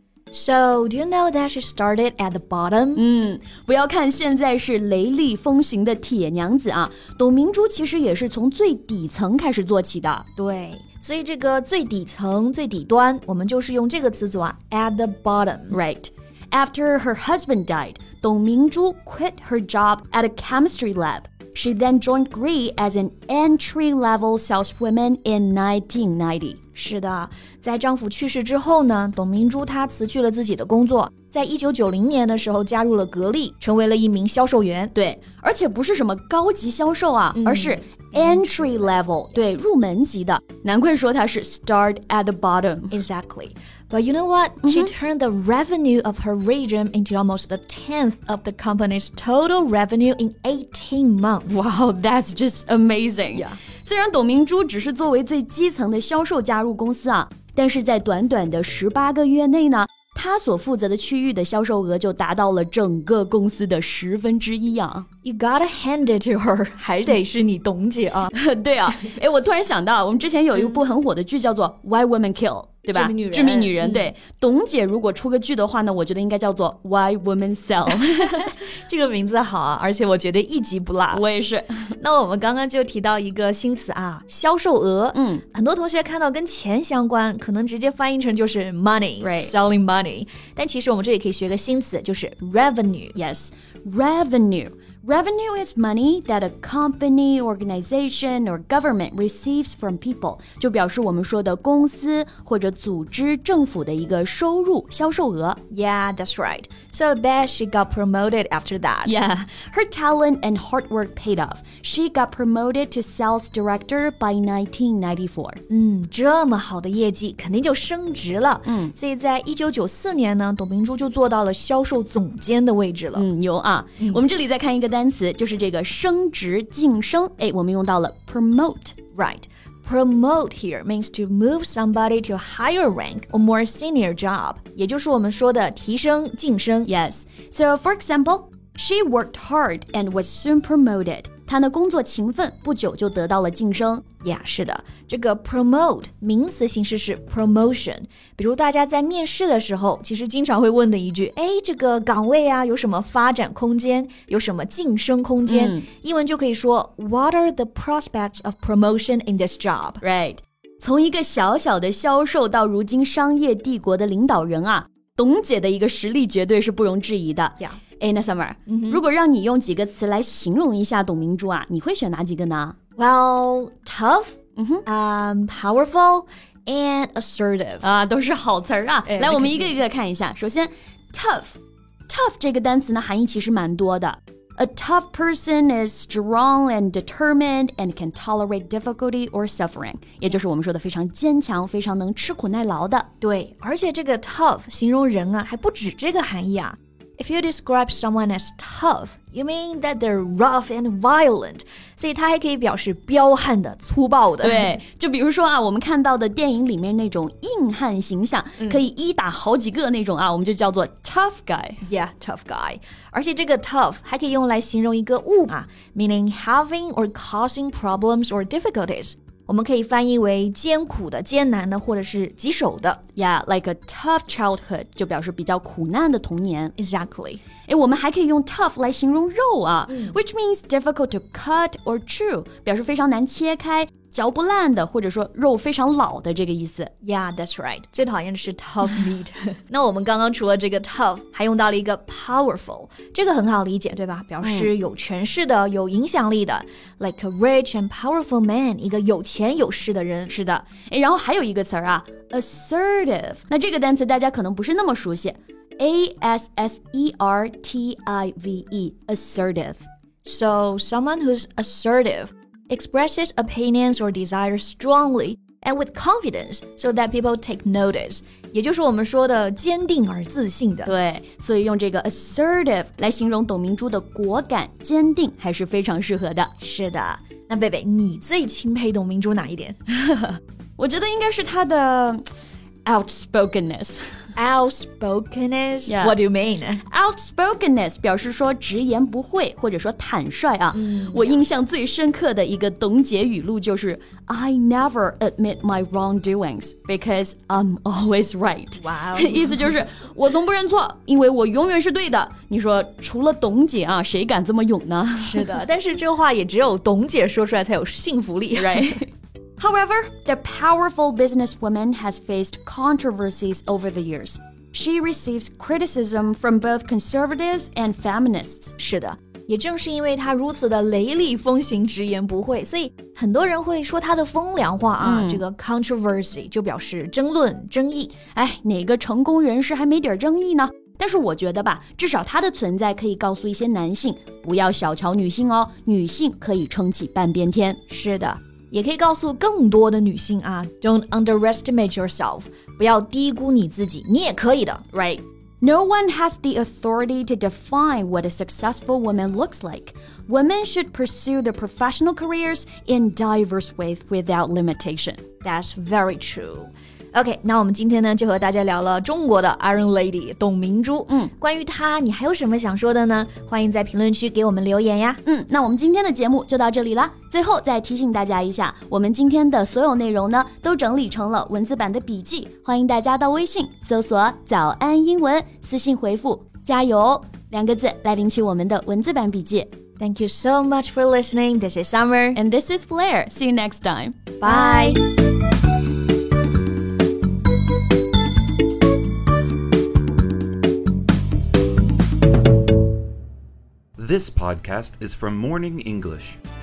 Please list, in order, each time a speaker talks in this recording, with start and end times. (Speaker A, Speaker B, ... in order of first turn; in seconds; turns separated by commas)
Speaker A: 0.3-3.0, Speaker B: 2.9-10.2, Speaker A: 10.3-15.8, Speaker B: 15.7-26.6, Speaker A: 26.7-34.9, Speaker B: 34.9-43.0, Speaker A: 37.4-38.4, Speaker A: 42.9-51.6, Speaker B: 44.6-44.9, Speaker B: 51.5-65.0, Speaker A: 65.2-68.3, Speaker B: 68.3-78.6, Speaker A: 72.9-74.1, Speaker A: 78.2-81.2, Speaker B: 81.1-81.9, Speaker A: 82.0-93.2, Speaker B: 85.1-85.4, Speaker B: 89.2-89.5, Speaker B: 93.2-105.6, Speaker A: 105.7-109.1, Speaker B: 109.0-115.6, Speaker A: 115.7-123.3, Speaker B: 118.6-118.9, Speaker B: 123.1-128.9, Speaker A: 129.1-136.9, Speaker B: 136.8-144.0, Speaker A: 144.2-160.0, Speaker B: 155.4-155.8, Speaker B: 160.0-172.8, Speaker A: 168.7-169.0, Speaker A: 173.0-177.9, Speaker B: 174.6-174.8, Speaker B: 177.8-193.1, Speaker A: 179.0-179.7, Speaker A: 193.2-204.8, Speaker B: 204.4-211.8, Speaker A: 211.8-223.0, Speaker B: 223.2-226.7, Speaker A: 226.8-227.4, Speaker B: 227.6-236.9, Speaker A: 229.9-230.2, Speaker A: 237.0-250.3, Speaker B: 244.4-244.7, Speaker B: 250.3-259.9, Speaker A: 260.2-270.9, Speaker B: 270.8-276.5, Speaker A: 276.6-279.8, Speaker B: 279.9-282.3, Speaker B: 282.8-284.0, Speaker A: 284.4-286.8, Speaker B: 285.9-286.1, Speaker B: 286.8-305.6, Speaker A: 290.7-291.4, Speaker A: 298.8-299.8, Speaker A: 305.2-309.0, Speaker B: 308.6-318.7, Speaker A: 318.8-328.1, Speaker B: 325.0-325.4, Speaker B: 328.3-337.8, Speaker A: 337.9-344.8, Speaker B: 344.9-355.2, Speaker A: 355.4-365.2, Speaker B: 365.2-379.7, Speaker A: 380.0-382.4, Speaker B: 382.3-385.0, Speaker A: 384.4-385.1, Speaker C: 394.0-396.4